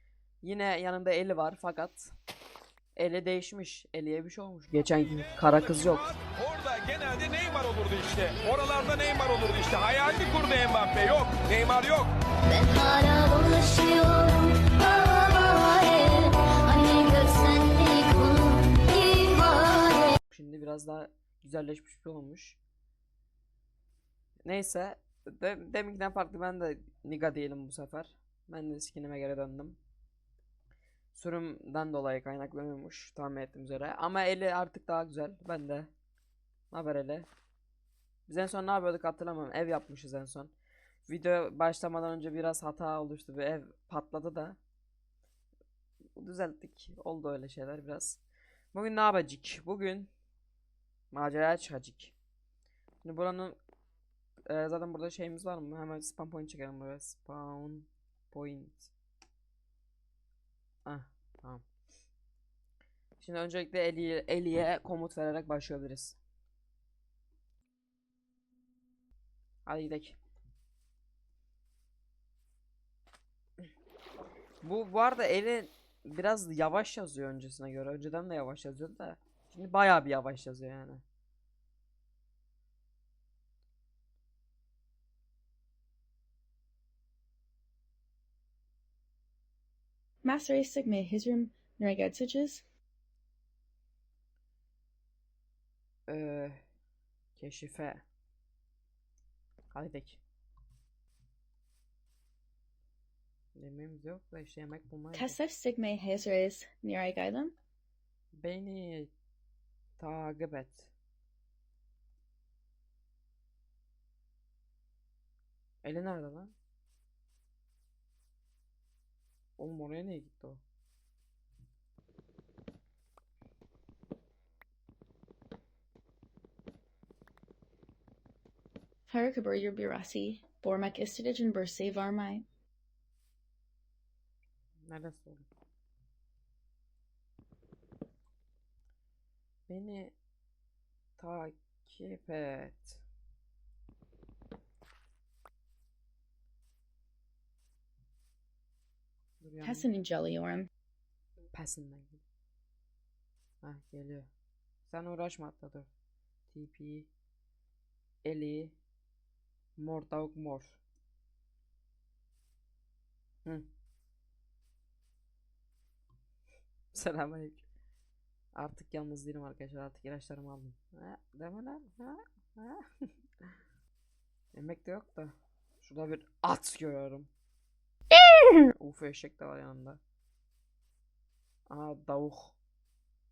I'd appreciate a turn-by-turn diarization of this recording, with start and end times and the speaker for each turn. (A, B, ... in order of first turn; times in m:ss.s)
0:00.4-0:02.1 A
0:03.0-0:06.1 A
0:05.1-0:12.1 B
0:12.5-0:20.2 C
0:20.3-0:22.6 A
0:24.4-0:29.8 A
0:31.1-0:35.9 A
0:36.7-0:37.3 A
0:38.3-0:40.5 A
0:41.1-0:44.6 A
0:46.2-0:48.2 A
0:48.7-0:50.1 A
0:51.1-0:52.1 A
0:53.0-0:53.6 A
0:54.5-0:58.9 A
1:00.9-1:01.6 A
1:03.2-1:06.2 A
1:09.7-1:10.2 A
1:14.6-1:21.0 A
1:30.2-1:32.6 D
1:36.1-1:36.6 A
1:37.4-1:38.0 A
1:39.7-1:40.2 A
1:43.6-1:45.4 A
1:45.1-1:47.6 D
1:48.3-1:49.1 A
1:50.0-1:50.9 A
1:55.8-1:56.5 A
1:59.6-2:00.6 A
2:09.1-2:12.4 D
2:14.8-2:15.5 A
2:19.7-2:20.2 A
2:21.2-2:23.0 A
2:29.4-2:29.9 A
2:29.6-2:30.7 D
2:31.5-2:32.2 A
2:33.6-2:34.3 A
2:34.9-2:35.9 A
2:36.5-2:37.1 A
2:38.2-2:38.8 A
2:39.8-2:40.8 A
2:46.9-2:47.6 A
2:48.6-2:53.1 A
2:54.5-2:57.3 A
2:58.6-3:00.0 A
3:01.7-3:02.6 A